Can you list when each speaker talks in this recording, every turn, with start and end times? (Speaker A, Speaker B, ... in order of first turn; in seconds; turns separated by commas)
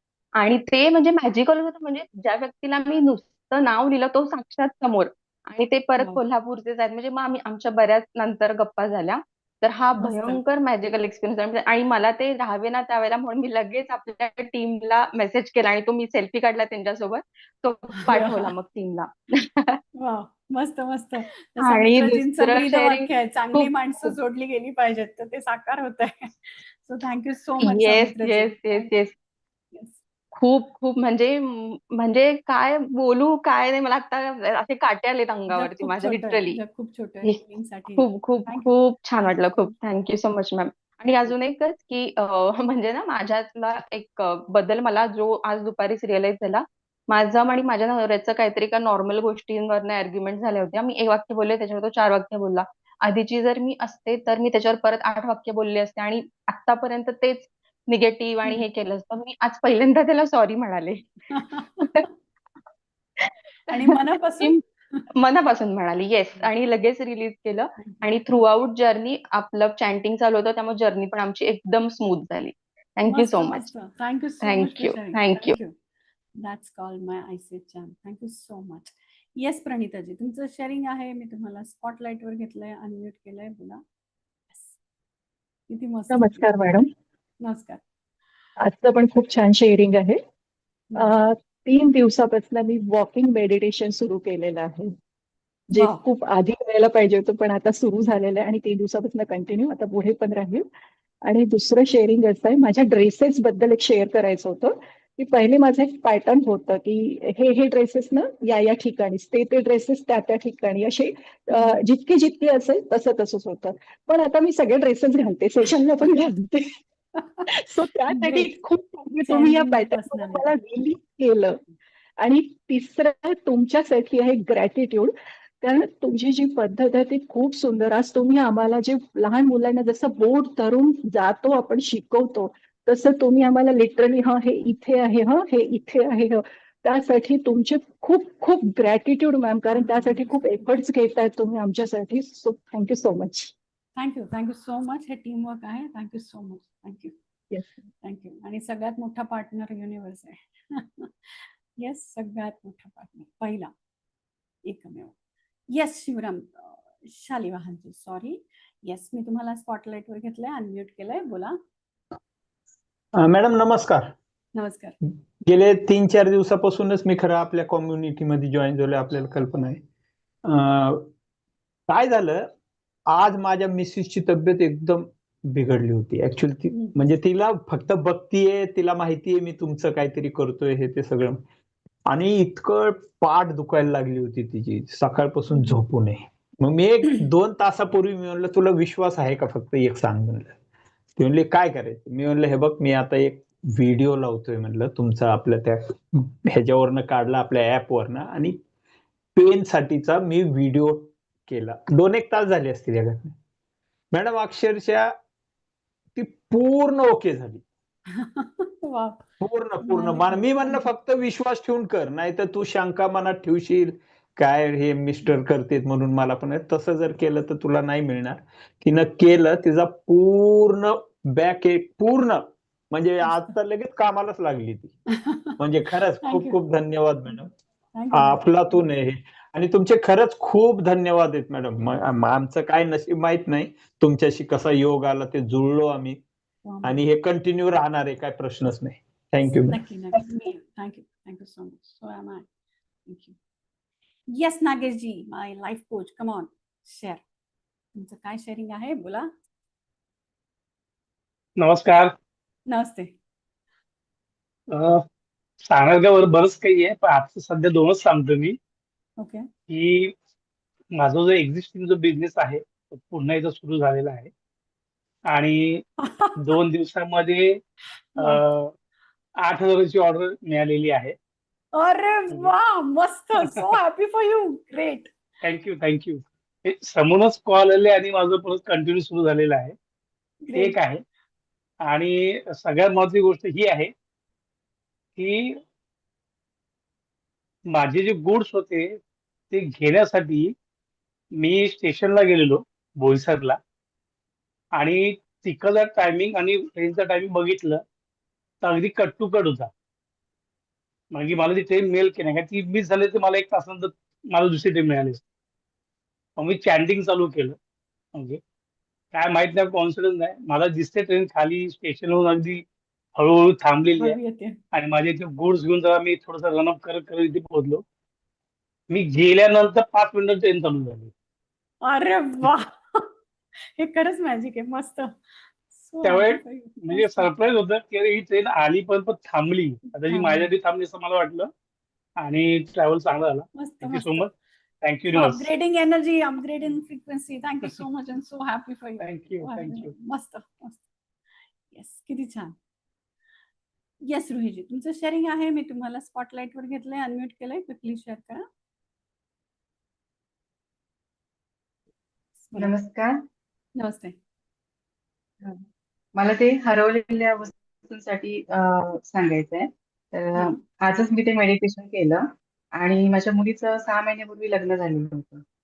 Speaker A: 0.4-19.8, Speaker B: 10.0-10.4, Speaker B: 18.0-18.5, Speaker B: 19.9-28.9, Speaker A: 21.6-24.1, Speaker A: 27.6-29.1, Speaker B: 29.7-30.0, Speaker A: 30.4-36.6, Speaker B: 35.5-39.8, Speaker A: 38.0-61.3, Speaker B: 61.3-62.1, Speaker A: 63.2-64.6, Speaker B: 63.7-65.1, Speaker A: 65.1-73.7, Speaker B: 67.8-68.0, Speaker B: 73.1-75.8, Speaker A: 74.4-75.6, Speaker B: 76.4-83.8, Speaker B: 84.5-84.8, Speaker B: 85.7-86.6, Speaker C: 86.1-86.9, Speaker B: 87.4-87.8, Speaker C: 88.6-90.2, Speaker B: 90.9-91.2, Speaker C: 91.0-95.0, Speaker C: 95.7-100.7, Speaker B: 95.7-96.0, Speaker C: 101.2-116.8, Speaker B: 111.5-111.8, Speaker C: 117.5-121.6, Speaker B: 118.1-118.5, Speaker B: 119.2-120.5, Speaker C: 122.2-143.5, Speaker B: 139.8-140.4, Speaker B: 144.0-147.1, Speaker B: 148.0-153.7, Speaker B: 154.7-155.2, Speaker B: 155.7-161.6, Speaker D: 163.2-164.2, Speaker B: 164.6-164.9, Speaker D: 165.4-169.8, Speaker D: 170.4-171.1, Speaker D: 171.9-172.5, Speaker D: 173.1-181.4, Speaker D: 182.1-190.6, Speaker B: 185.6-185.8, Speaker D: 191.2-198.6, Speaker D: 199.3-203.4, Speaker D: 204.1-205.2, Speaker D: 206.2-207.6, Speaker B: 208.1-209.2, Speaker D: 209.4-225.0, Speaker B: 209.8-210.9, Speaker B: 223.2-223.5, Speaker B: 225.2-225.6, Speaker D: 225.6-227.5, Speaker B: 226.2-226.6, Speaker B: 227.9-228.8, Speaker D: 228.1-236.2, Speaker B: 236.7-237.0, Speaker D: 236.8-239.8, Speaker B: 239.7-242.5, Speaker B: 243.1-243.4, Speaker B: 244.3-247.2, Speaker B: 248.0-249.3, Speaker E: 251.6-252.1, Speaker B: 252.7-253.2, Speaker E: 254.7-255.0, Speaker E: 255.6-258.6, Speaker B: 259.2-259.5, Speaker E: 259.7-260.1, Speaker E: 261.0-264.3, Speaker E: 265.3-265.8, Speaker B: 266.0-266.4, Speaker E: 266.4-267.6, Speaker B: 268.2-268.4, Speaker E: 268.2-268.7, Speaker E: 269.4-271.1, Speaker B: 271.7-275.1, Speaker E: 275.4-279.8, Speaker B: 280.4-280.8, Speaker E: 280.6-281.0, Speaker E: 281.8-283.9, Speaker E: 285.2-285.6, Speaker E: 287.7-289.0, Speaker E: 289.5-290.5, Speaker E: 291.4-293.6, Speaker E: 294.8-297.8, Speaker E: 298.6-299.7, Speaker E: 301.1-305.2, Speaker E: 306.4-307.6, Speaker E: 308.1-308.4, Speaker E: 309.1-312.6, Speaker E: 313.2-314.2, Speaker B: 314.0-314.6, Speaker E: 314.7-317.8, Speaker E: 318.9-321.1, Speaker B: 321.8-323.1, Speaker B: 323.8-327.3, Speaker E: 326.0-331.5, Speaker B: 330.1-330.5, Speaker E: 332.2-335.5, Speaker B: 333.6-334.3, Speaker B: 335.1-340.9, Speaker E: 339.0-339.9, Speaker B: 341.7-342.6, Speaker B: 344.1-348.5, Speaker B: 352.5-352.7, Speaker F: 352.6-353.2, Speaker B: 353.8-354.2, Speaker F: 356.2-365.4, Speaker B: 360.4-360.6